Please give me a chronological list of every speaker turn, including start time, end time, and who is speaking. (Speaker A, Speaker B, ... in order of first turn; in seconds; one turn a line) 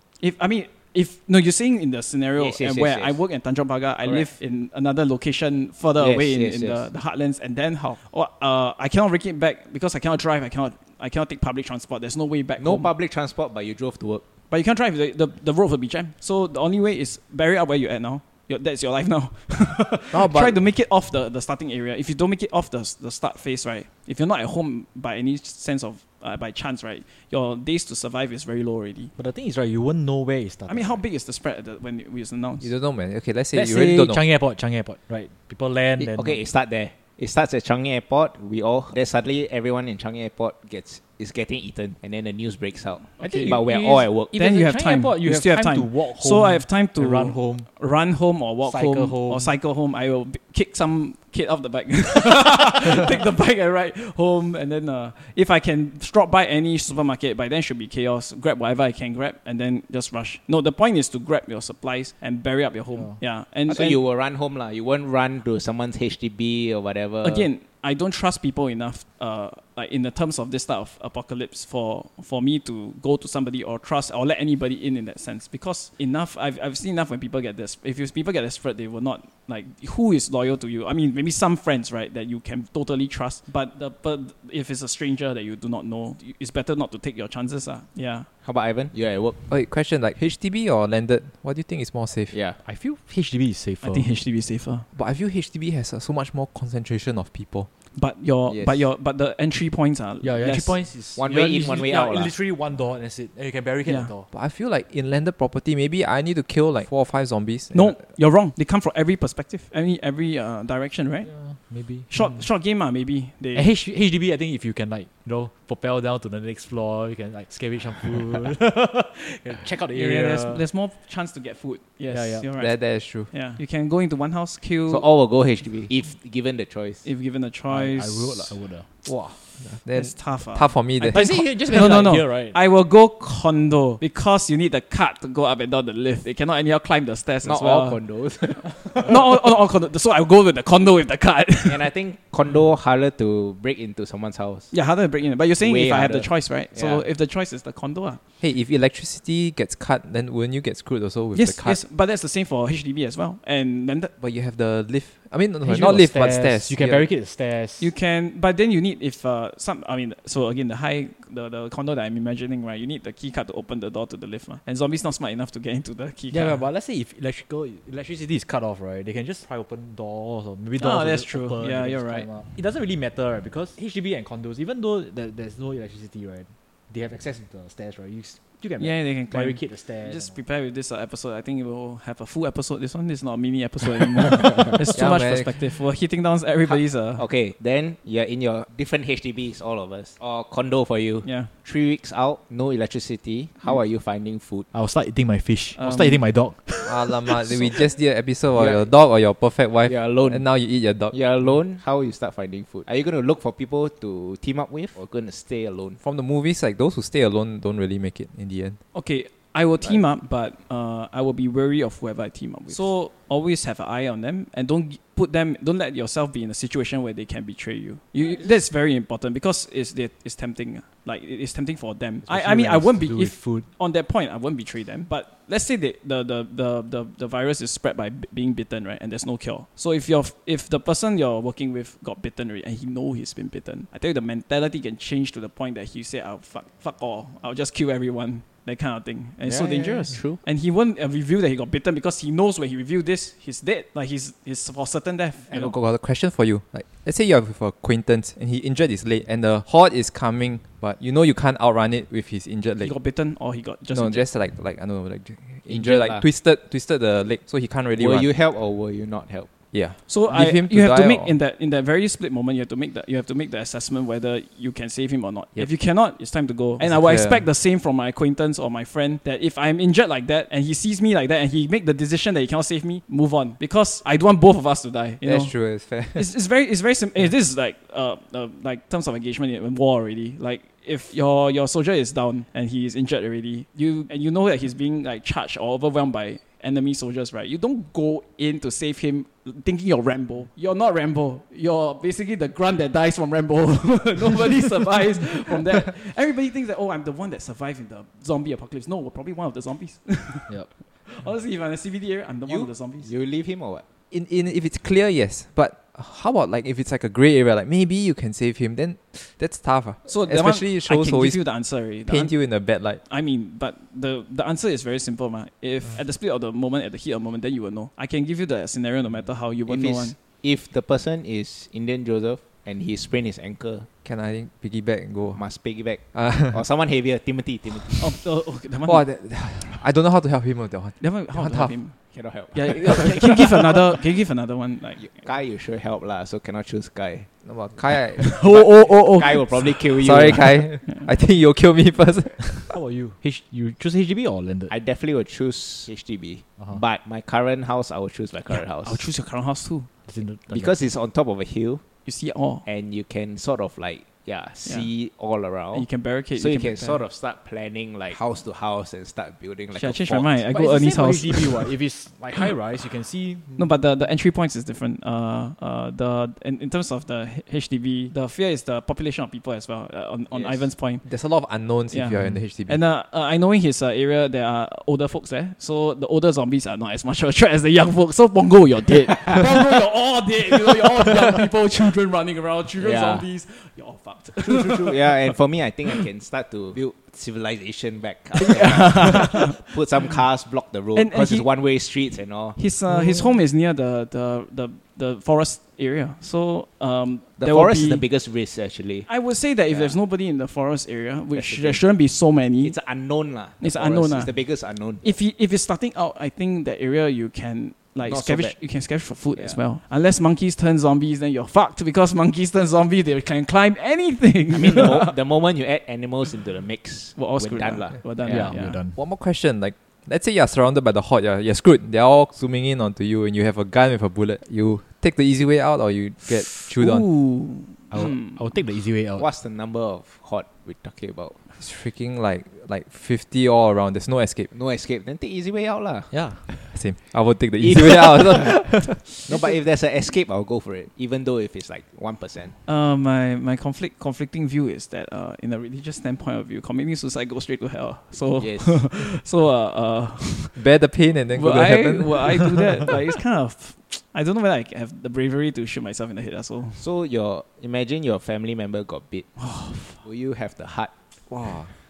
Speaker A: 0.2-12.9
Speaker B: 2.4-3.2
Speaker B: 4.0-4.3
Speaker B: 6.0-6.9
Speaker B: 12.6-14.2
Speaker A: 14.5-29.1
Speaker C: 20.1-20.6
Speaker C: 29.2-31.0
Speaker A: 30.7-32.7
Speaker D: 32.6-34.2
Speaker C: 33.5-36.4
Speaker B: 36.0-44.4
Speaker A: 43.2-43.6
Speaker C: 43.2-47.7
Speaker A: 44.3-64.0
Speaker C: 48.6-49.5
Speaker C: 62.9-63.2
Speaker B: 63.7-67.5
Speaker A: 67.2-88.3
Speaker B: 88.4-89.4
Speaker D: 89.5-92.4
Speaker B: 92.3-92.6
Speaker C: 92.6-94.2
Speaker A: 93.8-94.8
Speaker D: 94.9-97.7
Speaker A: 98.0-100.8
Speaker B: 98.5-98.9
Speaker C: 100.2-104.3
Speaker B: 101.2-102.3
Speaker A: 103.9-104.1
Speaker D: 104.3-108.0
Speaker A: 107.7-111.3
Speaker C: 111.3-112.5
Speaker A: 111.8-113.7
Speaker C: 113.5-120.6
Speaker A: 119.9-125.1
Speaker C: 122.1-122.5
Speaker D: 122.6-123.3
Speaker B: 124.9-127.1
Speaker A: 127.0-128.6
Speaker C: 127.7-129.2
Speaker D: 129.1-131.5
Speaker A: 129.9-138.1
Speaker C: 131.1-132.6
Speaker B: 137.4-139.1
Speaker A: 138.9-141.9
Speaker B: 141.7-144.7
Speaker A: 144.7-148.2
Speaker B: 145.6-147.1
Speaker D: 148.4-151.8
Speaker A: 151.3-154.1
Speaker D: 154.2-157.1
Speaker C: 155.6-157.9
Speaker A: 157.8-166.6
Speaker C: 166.3-180.4
Speaker A: 170.8-172.3
Speaker A: 178.8-187.2
Speaker D: 185.0-185.7
Speaker B: 186.7-194.7
Speaker A: 191.2-191.5
Speaker C: 194.7-197.8
Speaker A: 195.8-196.3
Speaker D: 196.8-201.2
Speaker B: 198.5-198.9
Speaker B: 199.9-200.5
Speaker B: 201.1-206.0
Speaker D: 206.0-208.8
Speaker A: 208.9-245.8
Speaker C: 222.2-223.7
Speaker B: 239.4-240.4
Speaker D: 245.5-253.0
Speaker A: 252.8-254.3
Speaker D: 253.9-258.3
Speaker B: 255.7-256.3
Speaker B: 258.0-259.5
Speaker D: 259.7-261.4
Speaker A: 260.1-303.1
Speaker D: 266.8-267.4
Speaker D: 275.2-276.3
Speaker B: 302.5-303.8
Speaker D: 304.1-313.0
Speaker A: 310.1-320.1
Speaker B: 319.7-323.9
Speaker D: 324.0-326.6
Speaker B: 325.3-328.1
Speaker A: 328.0-329.1
Speaker D: 328.9-332.0
Speaker A: 331.0-335.3
Speaker B: 332.1-333.9
Speaker B: 335.0-337.3
Speaker D: 337.4-338.7
Speaker B: 338.2-340.7
Speaker A: 338.2-339.9
Speaker D: 339.7-342.8
Speaker C: 342.7-344.7
Speaker B: 344.7-349.1
Speaker A: 348.5-349.9
Speaker C: 350.1-350.8
Speaker B: 350.5-351.8
Speaker A: 352.1-352.6
Speaker B: 352.6-360.4
Speaker A: 355.7-357.0
Speaker A: 359.7-361.7
Speaker C: 360.5-363.8
Speaker A: 363.6-371.1
Speaker B: 370.3-370.7
Speaker D: 371.1-372.8
Speaker A: 371.9-384.9
Speaker B: 382.8-383.3
Speaker C: 384.4-384.9
Speaker B: 384.8-392.6
Speaker A: 388.4-389.6
Speaker A: 390.9-391.5
Speaker A: 392.6-398.1
Speaker C: 392.9-393.4
Speaker B: 397.4-400.0
Speaker A: 399.1-402.8
Speaker B: 401.3-401.9
Speaker B: 402.6-405.2
Speaker A: 403.6-404.5
Speaker A: 405.0-415.1
Speaker B: 408.0-408.6
Speaker B: 409.4-409.6
Speaker B: 414.5-418.0
Speaker A: 417.2-418.8
Speaker C: 418.3-419.0
Speaker D: 418.3-427.2
Speaker A: 426.4-428.6
Speaker C: 427.9-429.3
Speaker B: 429.2-431.4
Speaker D: 431.6-434.5
Speaker B: 434.5-436.5
Speaker C: 436.1-436.6
Speaker D: 436.5-439.1
Speaker B: 437.6-442.6
Speaker A: 442.7-450.6
Speaker B: 448.4-448.9
Speaker D: 450.6-452.5
Speaker A: 451.3-456.8
Speaker B: 456.8-459.4
Speaker A: 459.4-460.0
Speaker B: 460.0-460.9
Speaker D: 461.3-461.7